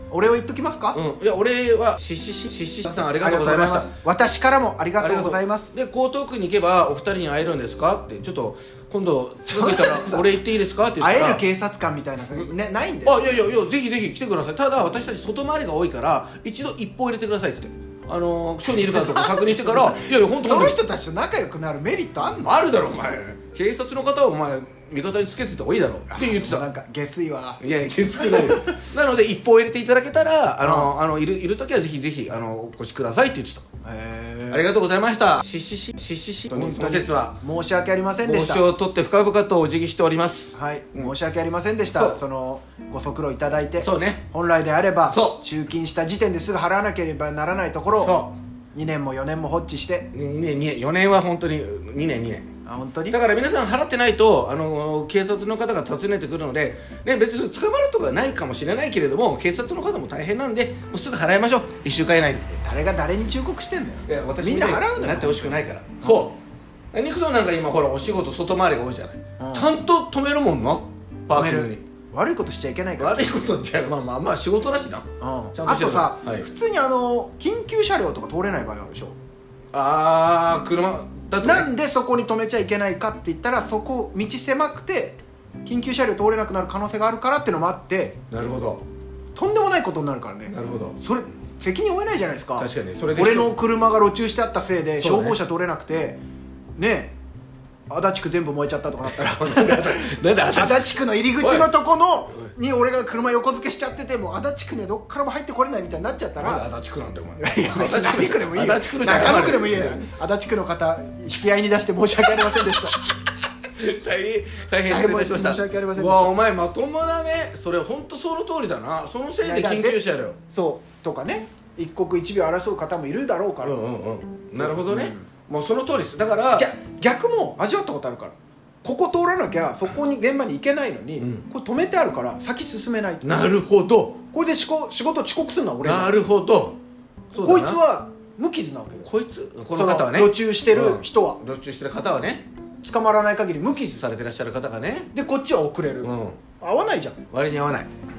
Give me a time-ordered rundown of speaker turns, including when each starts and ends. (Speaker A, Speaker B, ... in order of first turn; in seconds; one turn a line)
Speaker A: 0.1-1.0
Speaker B: 0.9-3.9
Speaker A: 3.2-5.7
Speaker B: 5.0-11.4
Speaker A: 9.4-10.3
Speaker A: 11.0-13.2
Speaker B: 13.1-20.8
Speaker A: 18.7-22.6
Speaker B: 22.4-26.7
Speaker A: 26.1-27.6
Speaker B: 27.6-33.6
Speaker A: 28.2-28.8
Speaker A: 30.6-30.9
Speaker A: 33.8-34.6
Speaker B: 34.5-37.4
Speaker A: 36.5-38.6
Speaker B: 38.2-41.1
Speaker A: 40.5-48.2
Speaker B: 41.9-42.2
Speaker B: 43.8-44.2
Speaker B: 45.1-45.4
Speaker B: 48.0-48.4
Speaker A: 48.7-50.1
Speaker B: 50.1-52.5
Speaker A: 52.7-53.2
Speaker B: 53.1-62.5
Speaker A: 62.6-66.3
Speaker B: 64.1-66.4
Speaker B: 66.9-71.8
Speaker A: 69.4-69.8
Speaker A: 71.3-73.4
Speaker B: 73.0-76.5
Speaker A: 75.2-79.2
Speaker B: 79.7-81.7
Speaker A: 81.4-88.2
Speaker B: 88.3-88.8
Speaker A: 89.3-96.2
Speaker B: 90.5-91.0
Speaker B: 92.6-93.5
Speaker B: 95.0-95.4
Speaker A: 96.8-97.1
Speaker A: 97.9-106.7
Speaker B: 99.0-101.7
Speaker B: 106.4-110.1
Speaker A: 107.4-113.0
Speaker B: 113.8-120.4
Speaker A: 114.9-116.3
Speaker A: 119.4-123.8
Speaker B: 123.6-126.7
Speaker A: 124.6-125.3
Speaker A: 126.5-133.5
Speaker B: 131.2-131.4
Speaker B: 133.2-134.2
Speaker A: 134.3-136.2
Speaker B: 135.8-136.8
Speaker B: 137.3-137.8
Speaker A: 137.4-139.1
Speaker B: 139.0-142.5
Speaker A: 139.8-141.4
Speaker A: 142.8-144.0
Speaker B: 143.9-145.1
Speaker A: 145.1-147.2
Speaker B: 146.0-146.4
Speaker B: 147.3-147.9